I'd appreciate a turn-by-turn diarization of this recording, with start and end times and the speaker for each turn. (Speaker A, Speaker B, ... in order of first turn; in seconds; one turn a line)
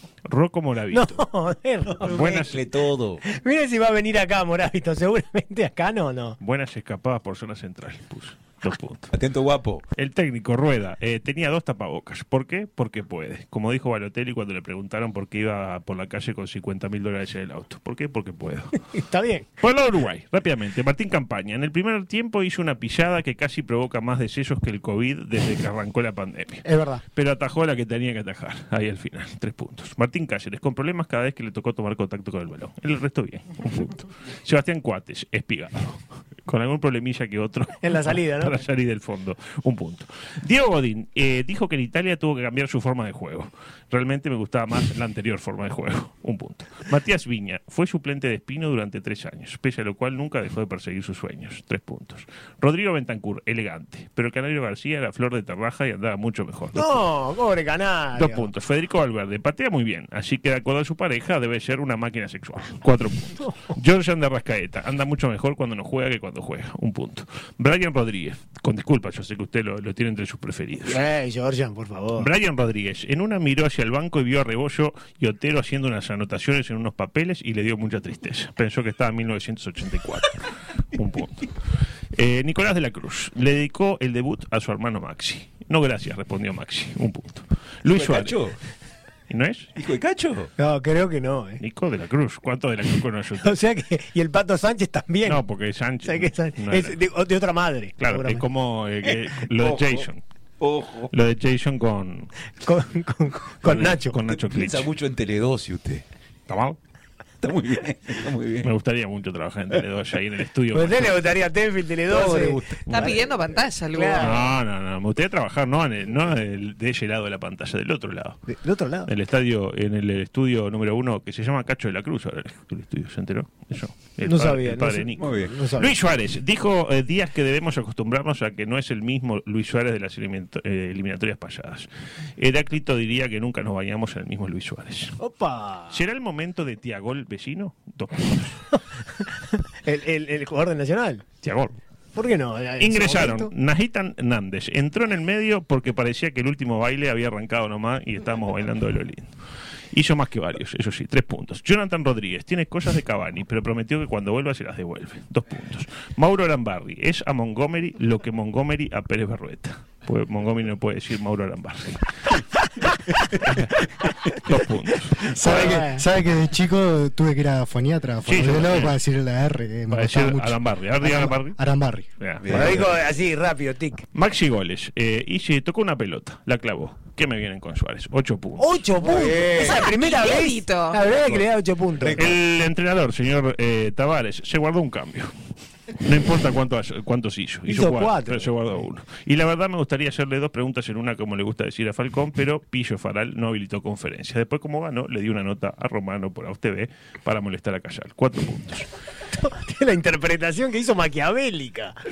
Speaker A: 0.2-1.2
Speaker B: 0.9-2.1
Speaker C: 1.9-3.2
Speaker A: 2.0-2.7
Speaker B: 3.2-6.4
Speaker A: 6.4-9.1
Speaker C: 9.1-9.8
Speaker A: 9.9-18.9
Speaker B: 18.9-19.5
Speaker A: 19.5-57.0
Speaker B: 26.6-27.0
Speaker B: 37.8-38.6
Speaker B: 56.7-58.5
Speaker A: 58.1-71.0
Speaker B: 70.8-72.3
Speaker A: 72.2-81.5
Speaker A: 82.1-88.5
Speaker C: 87.8-88.6
Speaker A: 89.3-89.7
Speaker C: 89.8-90.5
Speaker B: 90.6-91.6
Speaker A: 91.6-93.6
Speaker B: 93.4-95.4
Speaker A: 95.2-97.0
Speaker B: 96.0-98.4
Speaker A: 98.0-100.2
Speaker C: 99.0-100.1
Speaker C: 100.6-101.1
Speaker A: 101.1-102.3
Speaker B: 102.6-104.2
Speaker A: 103.6-104.9
Speaker C: 104.3-106.0
Speaker A: 106.5-106.8
Speaker C: 107.4-108.7
Speaker A: 108.6-111.1
Speaker B: 110.7-113.3
Speaker C: 112.0-112.9
Speaker A: 112.9-113.1
Speaker D: 112.9-114.5
Speaker B: 113.9-114.4
Speaker A: 114.2-118.5
Speaker B: 118.5-119.1
Speaker A: 119.0-135.2
Speaker B: 124.2-126.0
Speaker C: 125.2-125.5
Speaker B: 135.2-136.0
Speaker A: 135.9-138.8
Speaker B: 139.8-141.2
Speaker A: 141.4-141.8
Speaker B: 142.2-143.5
Speaker A: 142.8-149.3
Speaker A: 149.9-162.4
Speaker A: 163.3-165.6
Speaker B: 165.2-166.0
Speaker E: 165.3-172.1
Speaker A: 168.2-169.0
Speaker A: 169.9-171.6
Speaker A: 172.2-172.9
Speaker C: 172.4-173.0
Speaker B: 172.5-174.0
Speaker A: 174.1-178.8
Speaker B: 178.6-182.3
Speaker C: 179.0-179.9
Speaker D: 179.6-181.0
Speaker C: 182.0-182.3
Speaker A: 182.2-185.3
Speaker A: 185.9-198.9
Speaker B: 187.7-188.5
Speaker B: 199.3-201.9